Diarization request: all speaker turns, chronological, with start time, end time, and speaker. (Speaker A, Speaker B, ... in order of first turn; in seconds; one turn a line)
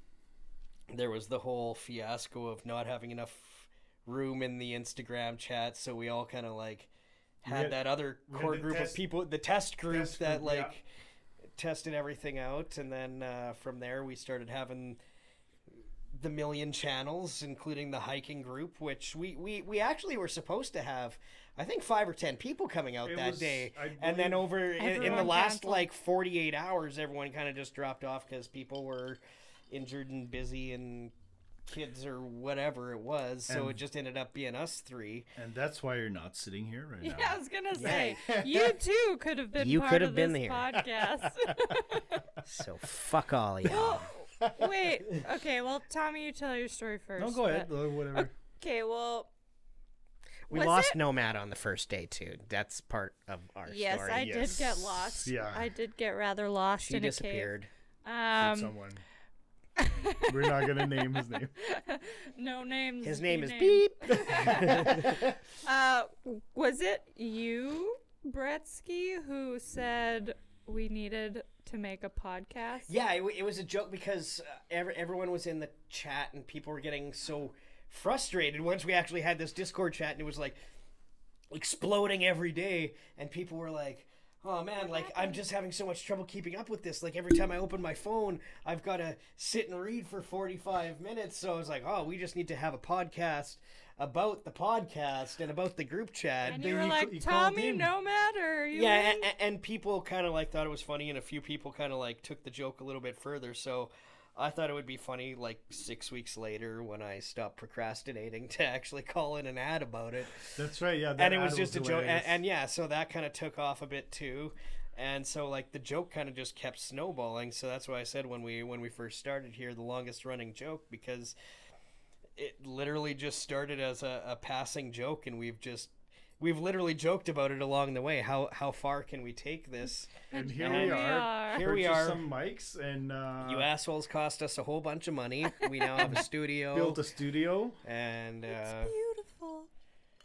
Speaker A: 0.9-6.9
Speaker A: 7.4-10.8
Speaker B: 7.4-9.0
Speaker B: 9.9-10.7
Speaker A: 11.6-15.0
Speaker A: 16.1-31.1
Speaker B: 23.0-25.3
Speaker C: 24.8-25.9
Speaker A: 31.7-35.3
Speaker B: 33.5-33.8
Speaker B: 35.4-38.8
Speaker C: 37.0-42.2
Speaker A: 37.7-38.2
Speaker A: 39.6-40.8
Speaker B: 41.2-41.5
Speaker A: 42.4-44.0
Speaker C: 43.6-49.3
Speaker B: 43.8-44.7
Speaker B: 47.2-48.3
Speaker A: 50.5-54.6
Speaker C: 50.5-51.0
Speaker C: 53.6-57.5
Speaker B: 54.1-55.6
Speaker A: 56.8-57.7
Speaker C: 58.0-58.7
Speaker B: 58.4-59.0
Speaker C: 59.8-60.9
Speaker B: 60.3-61.5
Speaker C: 61.6-72.9
Speaker A: 63.0-65.3
Speaker B: 64.2-65.2
Speaker A: 72.9-80.6
Speaker A: 81.5-96.6
Speaker C: 84.8-85.4
Speaker B: 96.4-97.9
Speaker C: 96.5-99.3
Speaker A: 98.7-110.6
Speaker B: 110.5-112.4
Speaker A: 111.2-121.3
Speaker A: 122.4-132.3
Speaker C: 130.3-131.6
Speaker B: 130.3-133.7
Speaker A: 133.4-137.0
Speaker B: 136.0-137.8
Speaker A: 137.8-138.9
Speaker C: 138.5-139.7